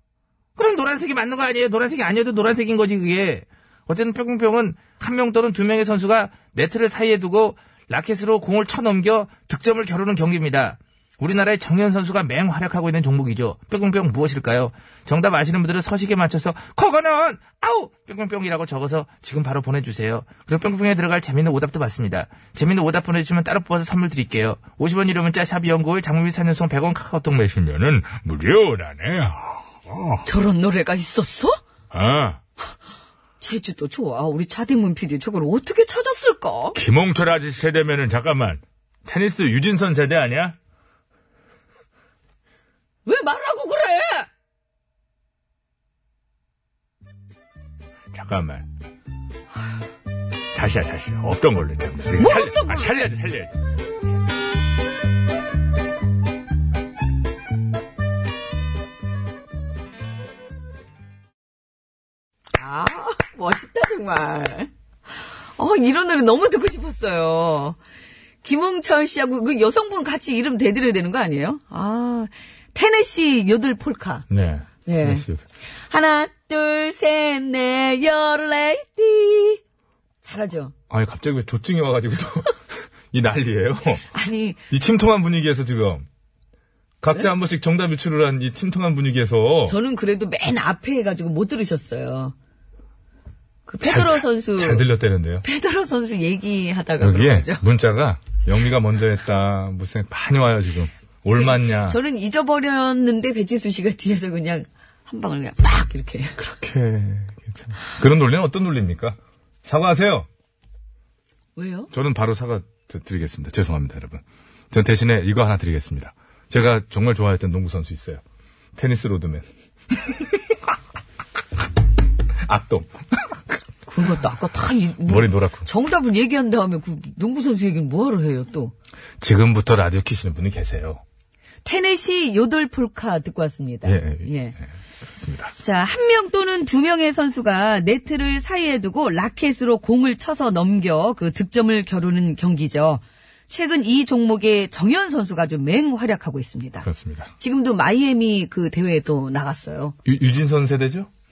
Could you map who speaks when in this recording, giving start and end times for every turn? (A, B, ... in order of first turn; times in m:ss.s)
0:00.6-0:27.6 A
0:27.5-0:30.0 B
0:30.2-0:31.6 C
0:31.9-0:32.4 B
0:33.4-0:36.8 C
0:36.7-0:40.5 B
0:43.0-0:44.3 C
0:48.1-0:48.6 B
0:50.5-0:53.5 B
0:52.2-0:53.0 C
1:02.6-1:04.7 C
1:05.6-1:07.8 C
1:08.4-1:14.2 C
1:14.3-1:15.4 B
1:14.8-1:15.2 C
1:15.9-1:19.6 C
1:20.2-1:20.7 C
1:20.9-1:24.0 B
1:24.1-1:24.6 C
1:24.7-1:26.0 B
1:27.0-1:29.8 B
1:29.6-1:32.3 C
1:33.7-1:34.8 C
1:33.8-1:35.4 B
1:35.4-1:37.6 C
1:37.0-1:42.0 B
1:41.3-1:46.4 C
1:46.4-1:50.3 B
1:51.6-1:51.9 C
1:51.9-1:58.2 B
1:58.8-2:00.4 B
2:02.4-2:03.4 B
2:03.9-2:08.7 C
2:05.0-2:05.7 B
2:09.2-2:11.0 B
2:11.6-2:14.6 C
2:13.8-2:15.5 B
2:15.6-2:26.9 C
2:26.8-2:27.3 B
2:27.4-2:30.0 C
2:30.0-2:31.1 B